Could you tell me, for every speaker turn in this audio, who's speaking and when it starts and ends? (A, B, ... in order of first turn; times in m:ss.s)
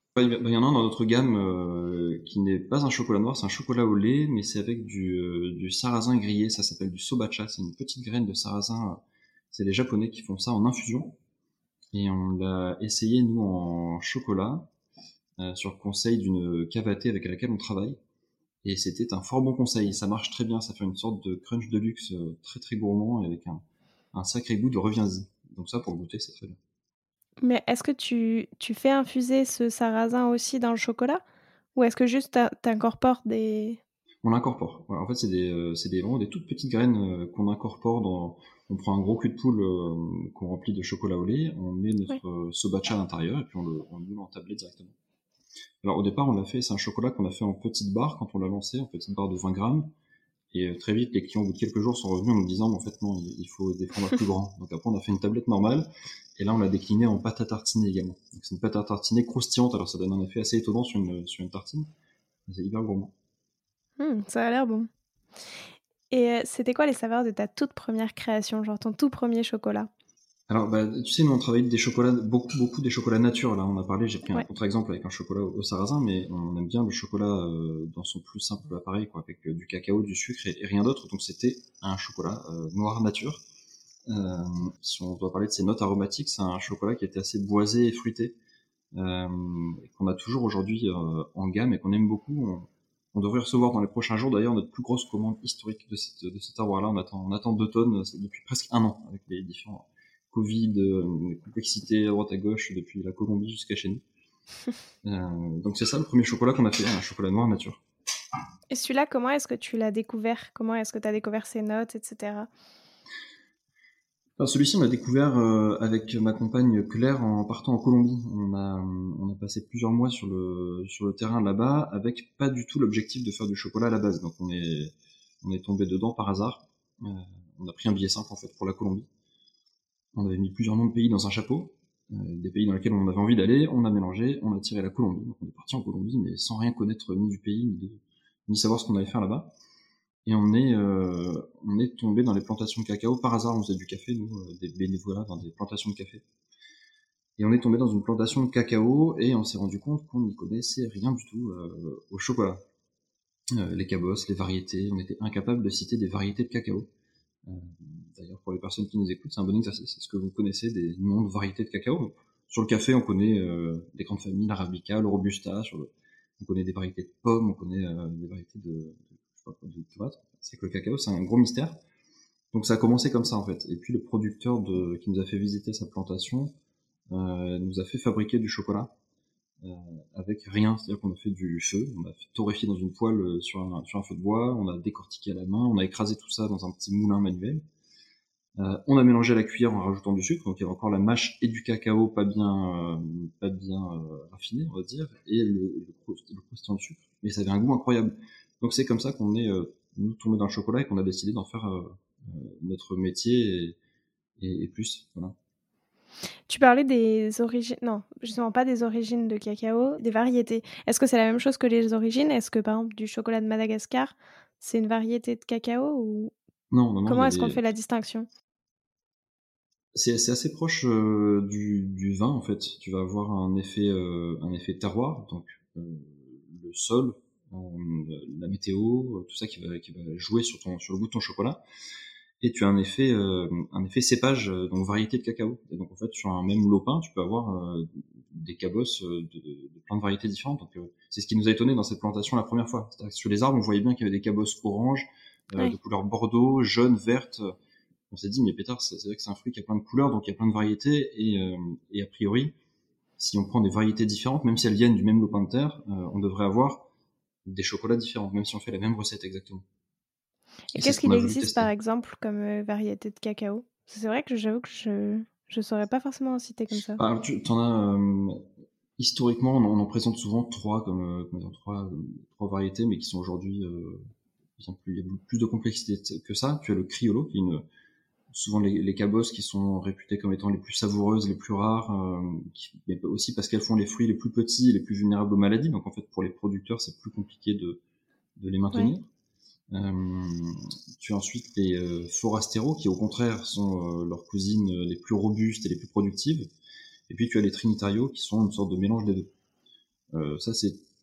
0:00.2-0:09.0 A
0:09.5-0:11.2 A
0:11.9-0:14.7 A
0:15.4-0:18.0 A
0:18.6-0:23.6 A
0:24.1-0:26.6 A
0:27.4-0:31.2 B
0:31.8-0:33.8 B
0:34.2-0:45.0 A
0:45.8-0:49.9 A
0:50.5-1:01.9 A
1:02.5-1:03.1 A
1:04.0-1:04.9 B
1:06.1-1:09.9 B
1:10.5-1:23.4 A
1:24.1-1:28.3 A
1:28.9-1:44.0 A
1:45.0-1:47.8 A
1:48.7-1:52.5 B
1:54.4-2:09.1 A
2:10.2-2:19.5 A
2:20.3-2:26.2 A
2:27.4-2:32.6 A
2:33.6-2:36.9 A
2:37.4-2:51.8 A
2:52.5-2:56.6 A
2:57.1-2:58.9 A
2:59.6-3:07.6 A
3:08.6-3:23.8 A
3:24.4-3:25.4 A
3:26.5-3:36.3 B
3:36.7-3:37.6 A
3:37.1-3:38.3 B
3:39.9-3:51.6 A
3:52.4-4:07.5 A
4:08.1-4:12.6 A
4:13.2-4:16.9 A
4:17.5-4:19.6 A
4:20.7-4:27.0 B
4:20.7-4:21.7 A
4:27.0-4:28.4 A
4:29.0-4:34.0 A
4:34.6-4:37.6 A
4:38.3-4:47.8 A
4:48.4-4:49.1 A
4:49.7-4:56.5 A
4:57.1-4:59.3 A
5:00.1-5:00.8 A